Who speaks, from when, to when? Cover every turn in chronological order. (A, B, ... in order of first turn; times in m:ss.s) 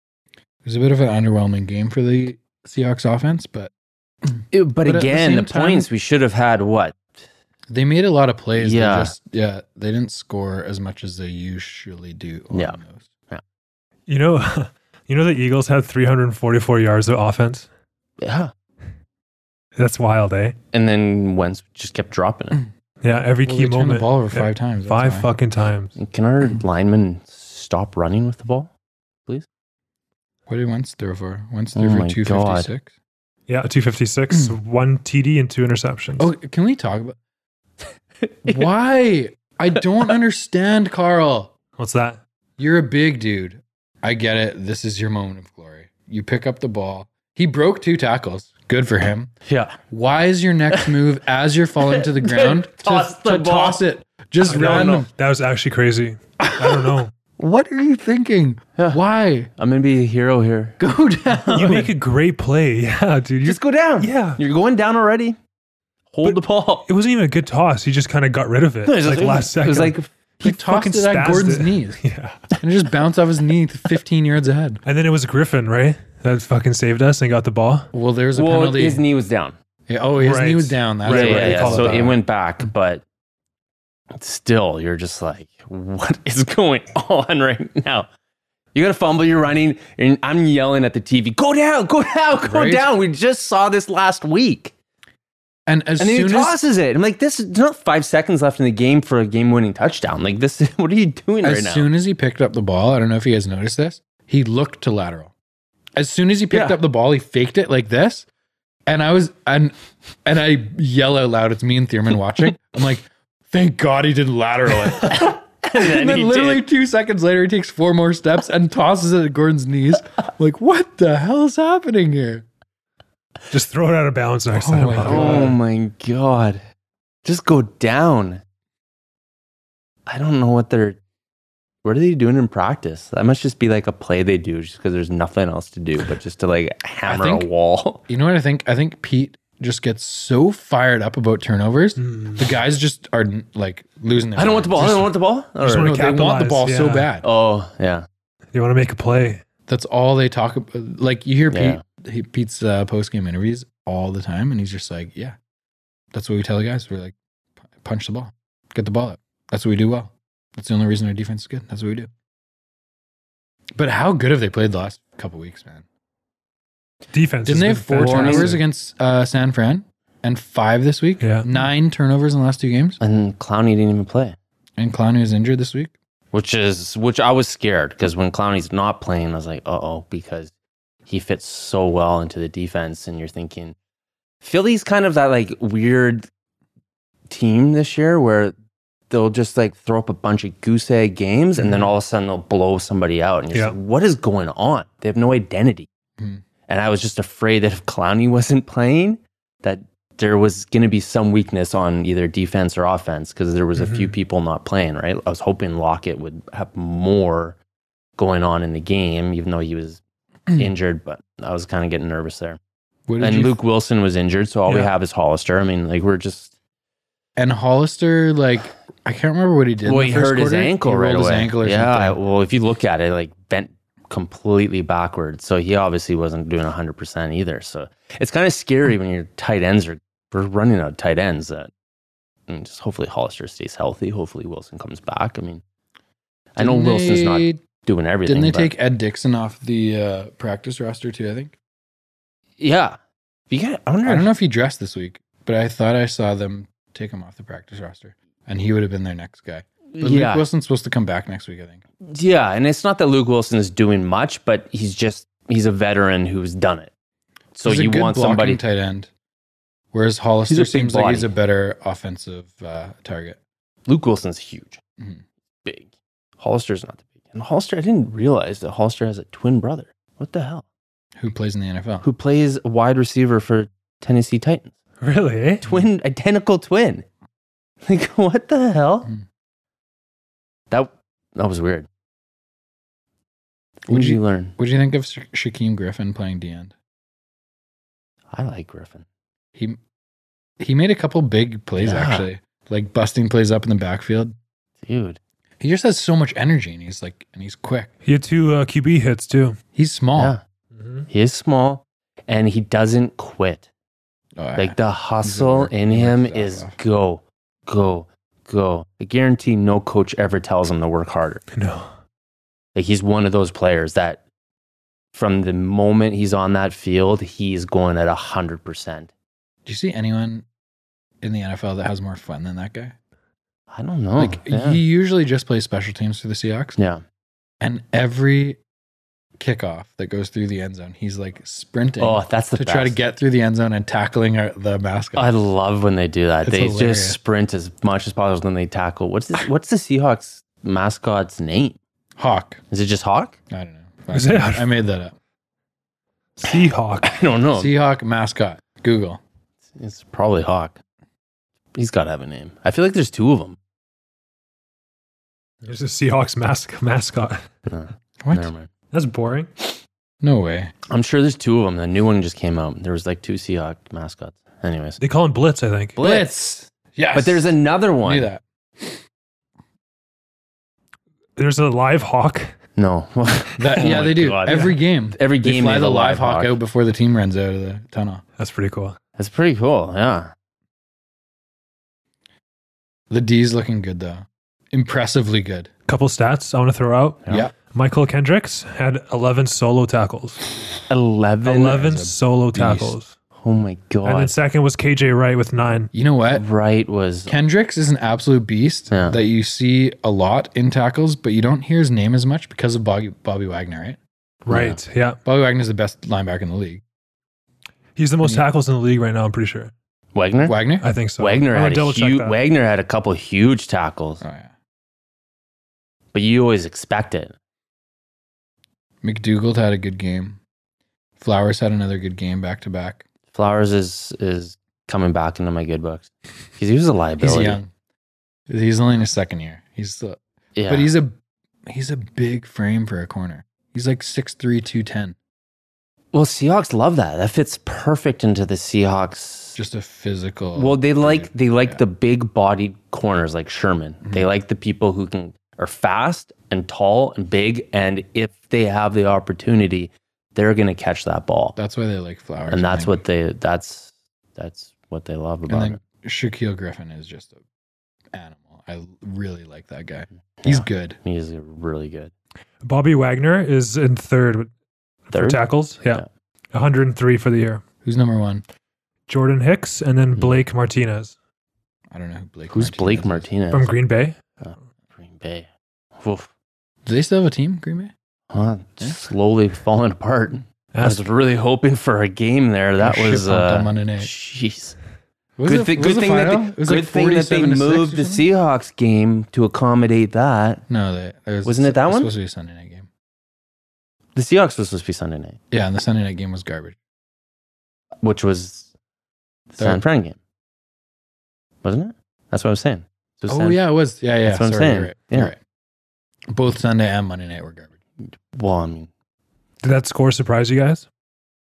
0:00.6-0:03.7 A
0:04.3-0:05.9 A
0:04.5-0:07.0 B
0:07.7-0:13.1 A
0:08.6-0:09.1 B
0:12.5-0:12.8 B
0:14.1-0:17.7 C
0:18.2-0:18.5 B
0:19.8-0:20.6 C
0:20.7-0:22.6 B
0:23.0-0:25.9 C
0:23.4-0:25.3 A
0:26.0-0:28.7 B
0:30.5-0:32.9 A
0:31.8-0:32.7 B
0:33.5-0:36.3 C
0:36.2-0:37.2 A
0:38.4-0:41.5 A
0:41.8-0:42.2 C
0:42.6-0:49.3 A
0:49.4-0:49.8 B
0:49.9-0:55.1 A
0:51.8-0:53.8 B
0:54.4-0:57.1 C
0:54.5-0:55.0 B
0:56.4-0:59.5 A
0:59.6-1:00.8 B
1:00.8-1:01.9 A
1:01.5-1:04.4 C
1:03.4-1:05.4 B
1:06.1-1:06.8 B
1:06.2-1:12.5 C
1:08.8-1:10.1 B
1:10.4-1:12.0 A
1:12.6-1:14.8 A
1:14.8-1:17.9 C
1:17.9-1:19.0 A
1:18.3-1:19.6 B
1:19.9-1:22.2 A
1:20.2-1:22.2 C
1:21.0-1:23.0 B
1:24.2-1:28.1 B
1:28.7-1:34.7 B
1:32.4-1:32.9 A
1:35.7-1:36.5 A
1:36.0-1:41.9 B
1:41.4-1:45.3 A
1:46.0-1:48.2 A
1:46.5-1:46.8 B
1:48.9-1:49.7 A
1:50.2-2:02.4 A
1:54.9-1:56.6 B
2:03.5-2:05.6 C
2:04.5-2:05.5 A
2:05.0-2:06.6 B
2:07.2-2:08.4 B
2:10.1-2:11.0 B
2:11.8-2:18.0 B
2:17.0-2:17.5 A
2:18.1-2:25.0 A
2:22.0-2:22.5 C
2:24.4-2:26.0 B
2:24.8-2:25.0 C
2:25.6-2:27.1 C
2:25.7-2:27.3 A
2:27.2-2:28.0 B
2:28.5-2:29.4 C
2:29.7-2:35.4 A
2:31.5-2:31.8 B
2:36.1-2:37.1 A
2:37.8-2:42.1 A
2:43.8-2:45.8 A
2:47.1-2:48.6 C
2:47.4-2:53.0 A
2:48.0-2:48.6 B
2:51.2-2:51.5 C
2:53.0-2:54.4 B
2:54.8-2:55.9 A
2:56.3-3:00.5 B
3:01.1-3:03.7 B
3:04.4-3:06.3 B
3:07.3-3:08.5 B
3:09.1-3:15.9 B
3:16.7-3:27.6 B
3:23.8-3:24.1 C
3:28.2-3:30.0 B
3:30.6-3:32.6 B
3:33.1-3:33.6 A
3:33.2-3:36.5 B
3:37.4-3:42.2 A
3:39.8-3:51.7 B
3:52.5-3:55.6 B
3:56.6-3:58.7 B
3:56.6-3:57.6 A
3:58.2-4:01.5 A
4:02.6-4:03.0 B
4:03.5-4:04.3 B
4:04.0-4:11.8 A
4:09.9-4:10.4 B
4:12.0-4:16.9 B
4:17.5-4:18.6 B
4:17.6-4:19.1 A
4:19.9-4:23.4 A
4:20.5-4:21.3 B
4:23.8-4:24.8 B
4:26.4-4:30.6 B
4:31.2-4:32.0 A
4:32.0-4:34.7 B
4:35.0-4:35.6 C
4:35.6-4:37.0 B
4:37.8-4:39.1 B
4:40.7-4:41.9 B
4:43.8-4:44.5 B
4:43.9-4:46.7 A
4:48.3-4:49.0 B
4:50.6-4:54.3 A
4:51.8-4:52.2 B
4:54.8-4:55.2 B
4:55.6-4:57.9 A
4:58.0-4:59.6 C
4:59.7-5:00.3 A
5:01.1-5:03.7 B
5:04.4-5:06.8 A
5:04.6-5:11.4 B
5:11.5-5:11.9 C
5:12.7-5:14.2 B
5:15.1-5:19.1 B
5:19.6-5:20.4 A
5:21.2-5:23.0 A
5:23.7-5:24.8 B
5:24.2-5:26.8 A
5:26.8-5:27.0 B
5:27.6-5:28.6 A
5:29.4-5:35.3 A
5:32.0-5:33.0 B
5:35.2-5:41.8 B
5:36.4-5:37.2 A
5:42.2-5:42.6 A
5:42.7-5:43.4 B
5:43.5-5:45.1 A
5:44.1-5:44.7 C
5:46.4-5:47.2 C
5:47.0-5:47.7 B
5:47.5-5:49.2 A
5:49.8-5:50.8 B
5:51.8-5:53.6 B
5:55.6-5:57.4 C
5:57.7-5:58.7 B
5:58.2-5:58.5 A
5:58.9-5:59.5 C
6:00.2-6:00.7 A
6:00.9-6:05.0 B
6:05.0-6:06.0 C
6:06.0-6:08.3 B
6:06.0-6:09.0 A
6:11.4-6:12.5 C
6:12.8-6:16.6 B
6:13.6-6:18.2 A
6:13.8-6:14.1 C
6:18.4-6:19.0 C
6:19.2-6:20.3 B
6:23.1-6:25.7 A
6:25.9-6:30.4 C
6:30.9-6:31.8 B
6:31.4-6:33.2 C
6:31.8-6:33.0 A
6:33.4-6:34.3 B
6:34.0-6:35.9 C
6:35.9-6:36.4 A
6:36.3-6:37.3 B
6:37.3-6:44.0 A
6:38.9-6:39.2 B
6:44.4-6:45.2 C
6:44.5-6:44.8 B
6:45.2-6:46.8 A
6:48.0-6:49.7 C
6:50.1-6:50.6 B
6:50.4-6:50.9 A
6:50.8-6:52.4 C
6:51.2-6:54.2 B
6:54.2-6:54.5 A
6:56.1-6:57.3 B
6:59.0-7:00.4 A
7:01.2-7:03.0 A
7:03.3-7:07.6 B
7:07.2-7:07.7 A
7:08.5-7:11.2 A
7:10.5-7:10.9 B
7:11.7-7:15.2 A
7:16.1-7:19.6 B
7:19.5-7:21.8 A
7:20.6-7:31.6 B
7:31.6-7:33.0 A
7:32.5-7:35.8 B
7:35.5-7:37.4 A
7:38.1-7:41.0 A
7:40.4-7:42.1 B
7:42.6-7:44.5 C
7:45.1-7:47.6 C
7:45.1-7:46.1 B
7:47.8-7:48.4 A
7:49.1-7:51.1 C
7:51.9-7:53.3 A
7:52.5-7:53.7 B
7:53.5-7:54.4 C
7:54.4-7:55.5 B
7:56.0-7:56.3 B
7:56.8-7:57.9 A
7:58.3-8:04.8 B
8:00.7-8:01.1 C
8:02.8-8:04.1 A
8:05.4-8:08.2 A
8:05.5-8:10.6 B
8:10.7-8:12.9 A
8:11.4-8:12.1 B
8:14.1-8:15.4 B
8:15.5-8:16.8 A
8:18.0-8:18.7 B
8:19.5-8:20.2 B
8:19.6-8:19.8 A
8:21.6-8:23.6 B
8:23.3-8:25.4 A
8:24.2-8:25.3 B
8:26.3-8:27.7 A
8:28.3-8:28.9 B
8:29.6-8:30.8 C